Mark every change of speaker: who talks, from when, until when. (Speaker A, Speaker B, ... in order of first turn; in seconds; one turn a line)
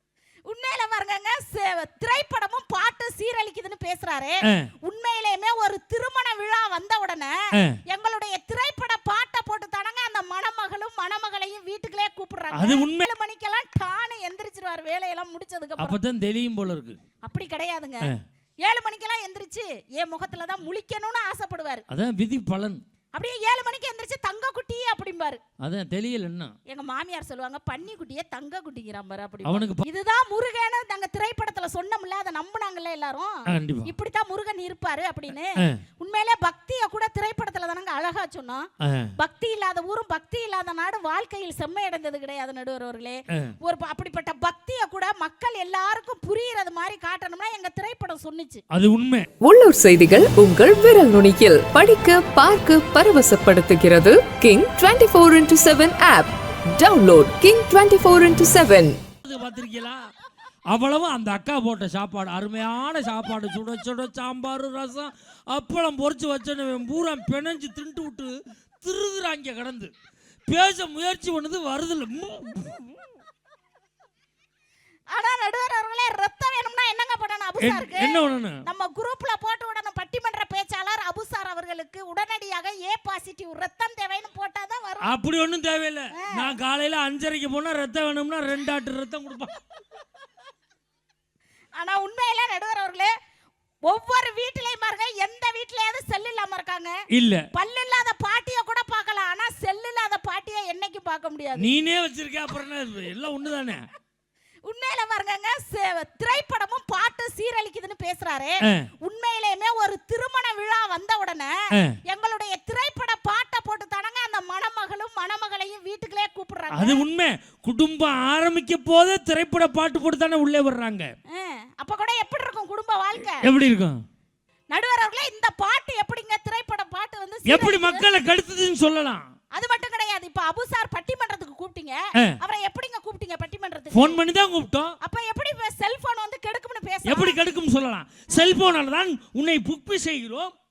Speaker A: 0.5-7.3
Speaker A: 7.9-16.0
Speaker B: 12.5-13.1
Speaker B: 15.8-17.0
Speaker A: 17.2-18.1
Speaker A: 18.6-21.8
Speaker B: 21.9-22.8
Speaker A: 23.1-25.4
Speaker B: 25.6-26.5
Speaker A: 26.7-38.6
Speaker B: 29.4-29.8
Speaker B: 33.5-33.9
Speaker B: 38.8-39.1
Speaker A: 39.2-48.6
Speaker B: 48.7-49.3
Speaker C: 49.4-59.0
Speaker B: 59.2-60.0
Speaker B: 60.7-69.9
Speaker B: 70.5-73.1
Speaker A: 75.1-85.1
Speaker B: 77.6-78.6
Speaker B: 85.0-89.6
Speaker A: 86.1-86.5
Speaker A: 91.8-93.1
Speaker A: 93.9-96.9
Speaker B: 97.1-97.4
Speaker A: 97.5-101.7
Speaker B: 101.6-103.8
Speaker A: 104.7-111.5
Speaker A: 112.0-117.0
Speaker B: 116.7-121.1
Speaker A: 121.3-123.5
Speaker B: 123.2-124.0
Speaker A: 124.7-128.1
Speaker B: 127.5-129.3
Speaker A: 129.5-134.2
Speaker B: 133.9-134.9
Speaker A: 135.0-137.4
Speaker B: 137.1-140.5